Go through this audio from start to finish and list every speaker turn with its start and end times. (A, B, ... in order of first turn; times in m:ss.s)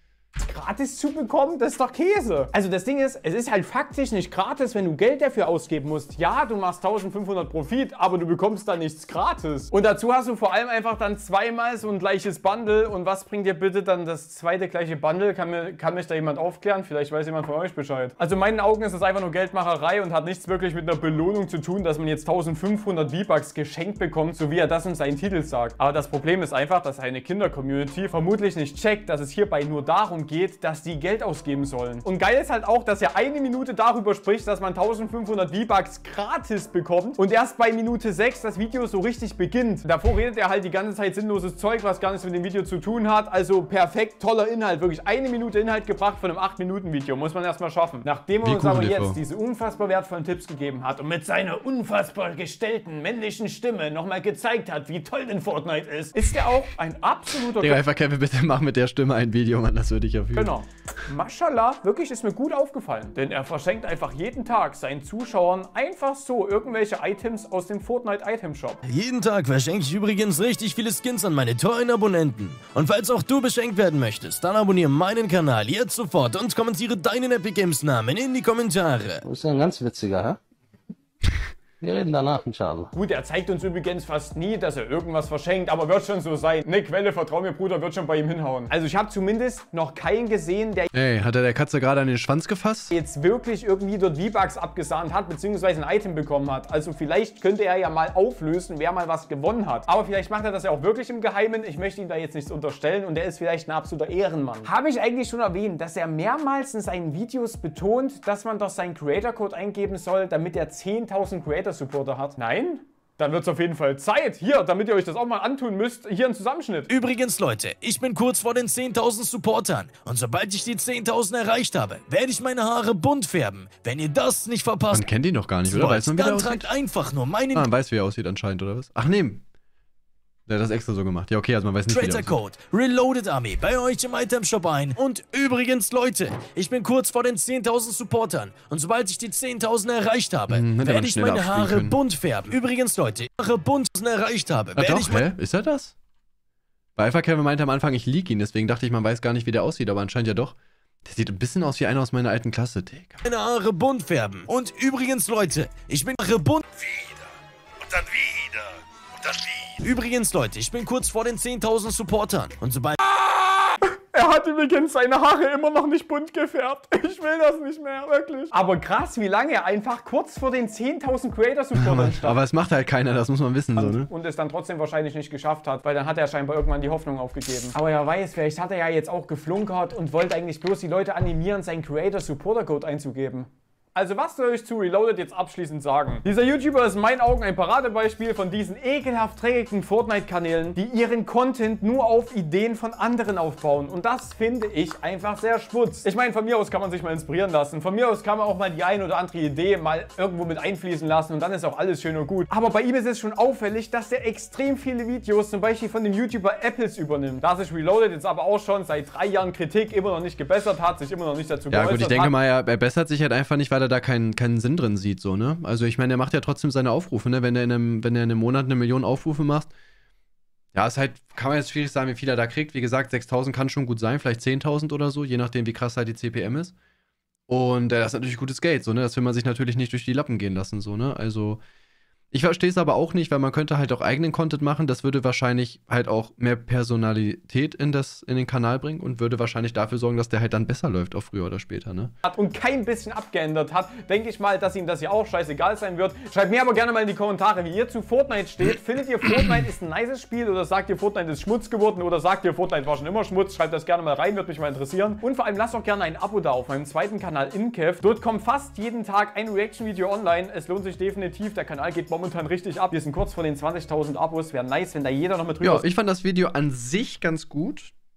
0:00.4-0:57.8 A
0:48.4-0:49.2 B
0:57.6-1:00.6 B
1:00.4-1:08.8 A
1:08.9-1:19.2 C
1:19.2-1:20.4 D
1:21.8-1:22.9 D
1:22.9-1:30.9 A
1:30.9-1:32.9 B
1:32.9-1:56.9 A
1:56.9-2:05.1 C
2:04.9-2:06.7 B
2:05.7-2:07.7 C
2:07.5-2:09.4 B
2:10.5-2:12.3 B
2:11.9-2:25.3 C
2:20.5-2:22.0 B
2:24.8-2:26.0 B
2:27.0-2:33.2 B
2:33.2-2:37.2 C
2:37.8-2:38.7 C
2:39.3-2:43.0 C
2:43.1-2:52.4 A
2:51.8-2:54.1 B
2:53.8-3:32.3 A
3:31.7-3:39.7 B
3:40.7-3:46.7 B
3:47.5-3:51.6 B
3:52.3-4:02.1 B
4:02.2-4:25.9 A
4:25.6-4:27.9 B